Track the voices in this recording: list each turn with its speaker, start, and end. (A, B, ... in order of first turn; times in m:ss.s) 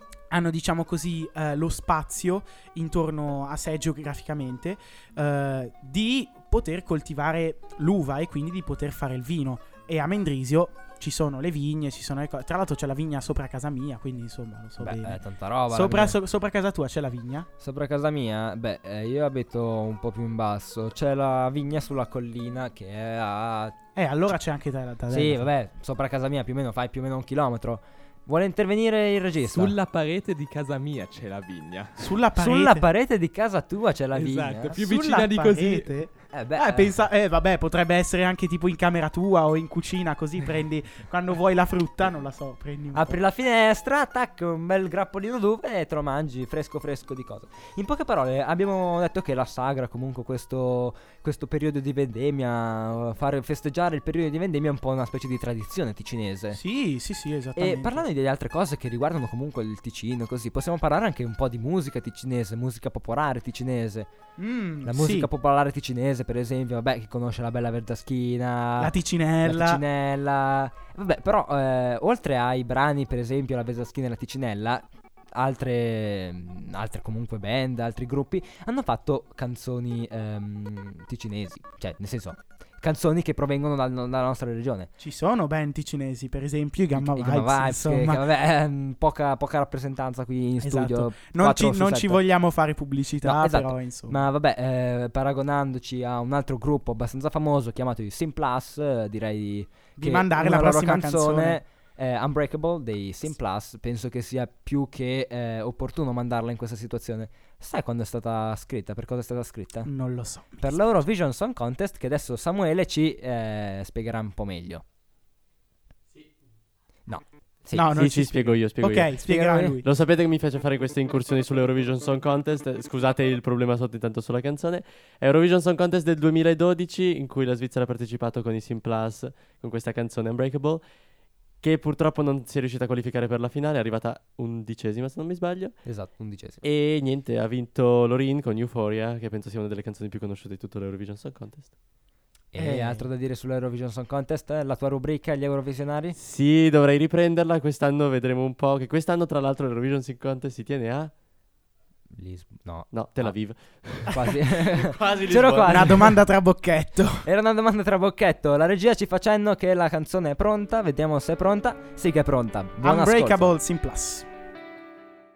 0:00.3-0:17.5 A
0:14.8-0:16.2 B
0:17.6-0:23.7 B
0:24.0-0:25.4 A
0:25.1-0:29.7 B
0:29.4-0:32.0 C
0:32.0-0:32.8 A
0:32.4-0:34.8 B
0:34.1-0:36.2 C
0:34.8-0:43.2 A
0:36.3-0:37.0 B
0:42.9-0:56.6 B
0:56.5-0:58.0 A
0:57.6-1:04.1 B
1:04.4-1:05.3 A
1:04.8-1:14.8 B
1:08.8-1:09.8 A
1:15.4-1:24.9 B
1:25.0-1:28.2 A
1:26.9-1:32.2 B
1:30.6-1:34.2 A
1:33.2-1:49.9 B
1:40.0-1:41.6 A
1:49.8-1:50.8 A
1:50.6-1:54.8 B
1:57.1-1:57.9 B
1:57.7-1:59.8 A
1:57.9-1:59.2 D
1:59.2-1:59.8 B
1:59.8-2:16.0 D
2:15.8-2:16.6 B
2:16.6-2:22.0 D
2:22.5-2:26.2 B
2:22.6-2:23.1 A
2:26.2-2:31.2 D
2:32.1-2:36.2 B
2:32.9-2:35.9 D
2:35.6-2:37.2 A
2:37.2-2:43.5 B
2:42.8-2:44.3 A